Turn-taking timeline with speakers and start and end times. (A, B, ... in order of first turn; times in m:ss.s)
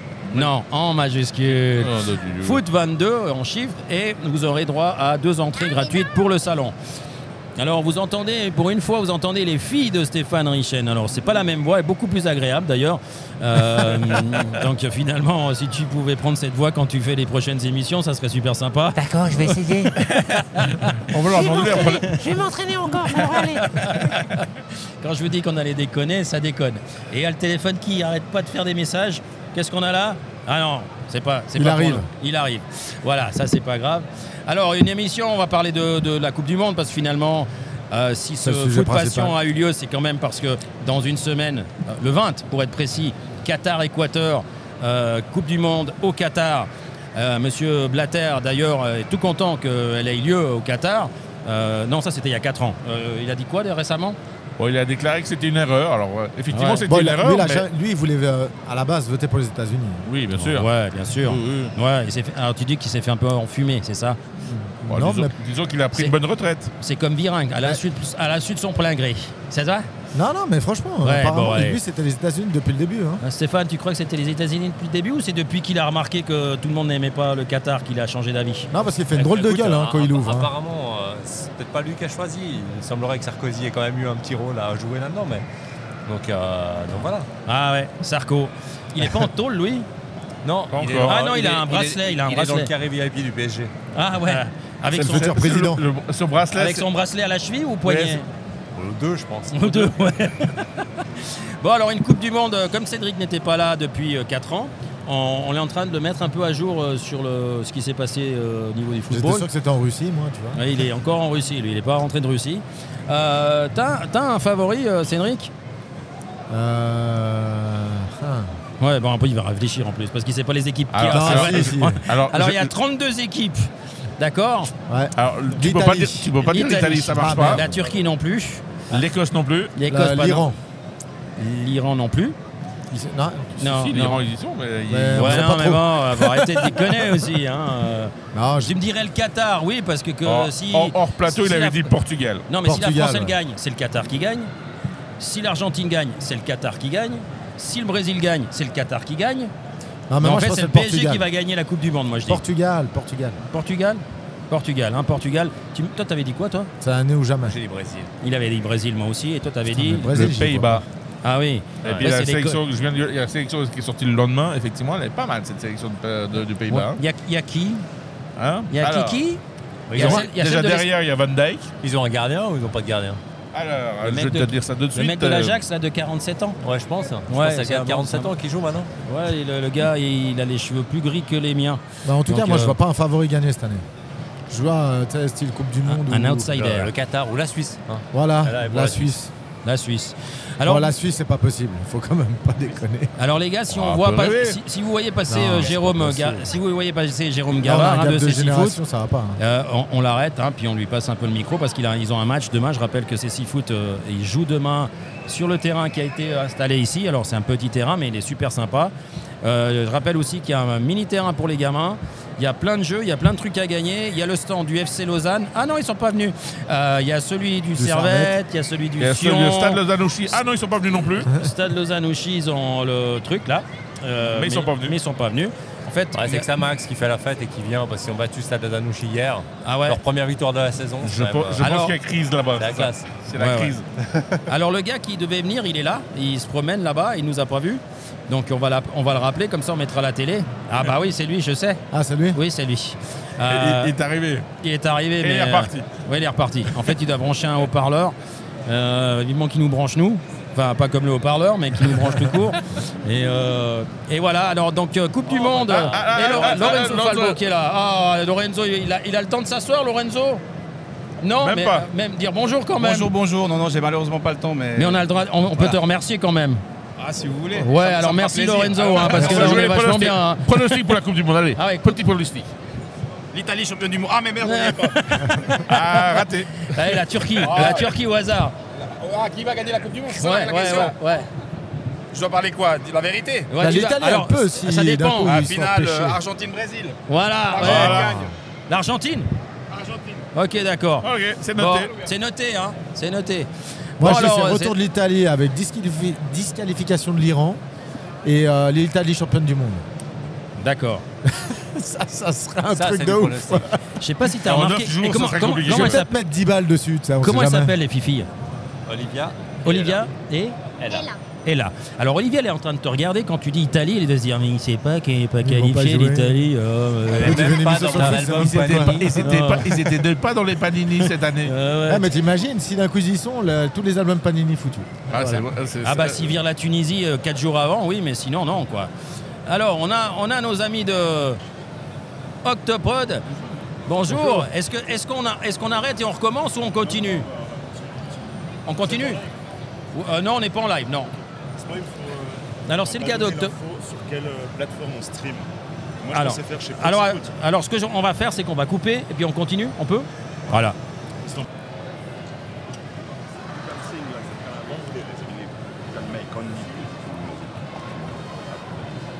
0:00.3-0:06.7 A
0:01.8-0:02.6 B
0:07.6-0:22.2 A
0:18.9-0:20.2 C
0:20.5-0:22.2 B
0:21.3-0:24.2 C
0:23.6-0:24.5 A
0:25.0-0:54.2 A
0:31.5-0:32.1 D
0:38.4-0:39.3 D
0:54.6-0:57.6 B
0:56.5-0:56.8 A
0:56.9-1:00.0 D
1:00.0-1:00.7 B
1:00.4-1:04.2 A
1:01.2-1:01.7 B
1:04.4-1:05.3 D
1:04.9-1:06.7 B
1:06.8-1:09.9 A
1:10.1-1:13.2 D
1:11.0-1:11.8 A
1:13.2-1:18.7 A
1:18.7-1:20.5 D
1:19.1-1:25.4 E
1:26.0-1:27.3 E
1:27.5-1:29.9 A
1:30.4-1:33.7 E
1:30.7-1:31.1 B
1:31.0-1:32.7 A
1:33.9-1:35.3 A
1:34.9-1:36.9 B
1:35.0-1:35.8 D
1:36.5-1:38.2 A
1:37.8-1:38.2 B
1:38.8-1:39.9 E
1:39.5-1:41.0 A
1:41.6-1:49.5 A
1:49.1-1:50.8 D
1:50.5-1:55.5 A
1:56.5-1:58.5 D
1:58.8-2:04.7 A
2:00.9-2:02.7 B
2:01.1-2:02.0 D
2:04.8-2:07.7 D
2:05.2-2:07.7 B
2:06.4-2:08.8 A
2:08.9-2:09.7 B
2:09.8-2:10.4 A
2:09.9-2:10.6 D
2:11.4-2:12.4 A
2:12.9-2:13.6 D
2:13.6-2:14.2 A
2:13.6-2:15.5 B
2:14.9-2:17.2 D
2:15.1-2:21.9 A
2:18.3-2:18.7 D
2:20.2-2:22.4 B
2:22.5-2:24.5 A
2:22.6-2:23.4 D
2:25.2-2:29.5 A
2:30.1-2:31.2 D
2:30.2-2:32.4 A
2:32.3-2:33.4 D
2:33.5-2:36.7 A
2:36.8-2:37.6 D
2:37.5-2:38.1 E
2:38.2-2:40.2 A
2:39.7-2:40.8 D
2:40.1-2:40.8 B
2:41.2-2:42.6 A
2:41.8-2:47.0 B
2:46.9-2:47.8 A
2:48.4-2:49.2 B
2:48.7-2:49.4 A
2:49.9-2:50.2 E
2:49.9-2:50.9 A
2:49.9-2:51.7 B
2:51.8-2:53.2 E
2:53.5-2:55.6 B
2:54.0-2:56.6 A
2:56.6-2:58.9 E
2:57.3-2:58.3 A
2:59.0-3:02.8 A
3:02.0-3:03.8 D
3:04.5-3:06.5 D
3:05.8-3:06.9 A
3:06.5-3:09.1 E
3:08.1-3:09.3 D
3:09.6-3:10.9 A
3:10.6-3:13.1 D
3:13.2-3:18.8 A
3:13.7-3:14.6 B
3:15.3-3:16.4 D
3:17.6-3:19.4 D
3:19.4-3:39.8 A
3:37.8-3:38.3 D
3:39.0-3:41.3 B
3:41.2-3:46.5 A
3:44.3-3:45.0 B
3:46.1-3:51.6 E
3:49.6-3:50.0 A
3:51.0-3:53.8 B
3:51.6-3:51.9 A
3:52.6-3:53.1 E
3:53.4-3:53.8 A
3:54.0-3:54.4 E
3:54.5-4:01.8 A
4:01.9-4:02.4 D
4:02.3-4:03.9 A
4:03.5-4:04.4 B
4:04.6-4:08.1 A
4:05.2-4:05.9 B
4:08.7-4:20.4 A
4:15.3-4:17.4 B
4:21.2-4:23.1 A
4:21.4-4:21.8 B
4:22.8-4:25.0 F
4:24.8-4:26.6 A
4:27.0-4:29.7 F
4:27.5-4:30.4 A
4:28.9-4:32.4 B
4:31.6-4:32.0 A
4:33.3-4:35.4 F
4:34.4-4:38.5 A
4:35.6-4:36.9 B
4:37.4-4:37.9 F
4:38.8-4:41.0 F
4:40.1-4:41.3 A
4:42.1-4:43.5 F
4:43.5-4:45.4 A
4:43.6-4:46.2 D
4:45.2-4:47.0 F
4:47.1-4:48.1 A
4:47.5-4:48.3 F
4:47.6-4:48.2 B
4:48.7-4:49.3 A
4:49.7-4:50.2 F
4:50.3-4:54.7 A
4:51.0-4:51.9 B
4:54.0-4:57.6 D
4:58.2-4:59.8 D
5:00.6-5:01.0 A
5:01.2-5:03.8 D
5:02.7-5:03.7 E
5:04.0-5:06.1 A
5:04.4-5:06.0 B
5:05.7-5:07.7 D
5:07.2-5:08.3 A
5:08.8-5:10.0 E
5:09.6-5:10.6 A
5:10.8-5:11.1 E
5:10.9-5:11.2 C
5:11.4-5:19.9 A
5:15.4-5:16.4 D
5:17.1-5:19.1 E
5:17.1-5:19.2 D
5:18.3-5:21.5 B
5:21.0-5:22.1 A
5:21.9-5:25.1 D
5:25.1-5:26.4 B
5:25.1-5:28.9 A
5:29.4-5:31.4 A
5:32.4-5:33.2 A
5:33.8-5:37.3 A
5:36.8-5:38.1 G
5:38.6-5:39.2 A
5:38.7-5:39.3 G
5:39.9-5:41.1 A
5:41.6-5:45.5 G
5:42.6-5:43.5 A
5:46.0-5:47.3 G
5:46.1-5:50.8 A
5:53.4-5:58.9 G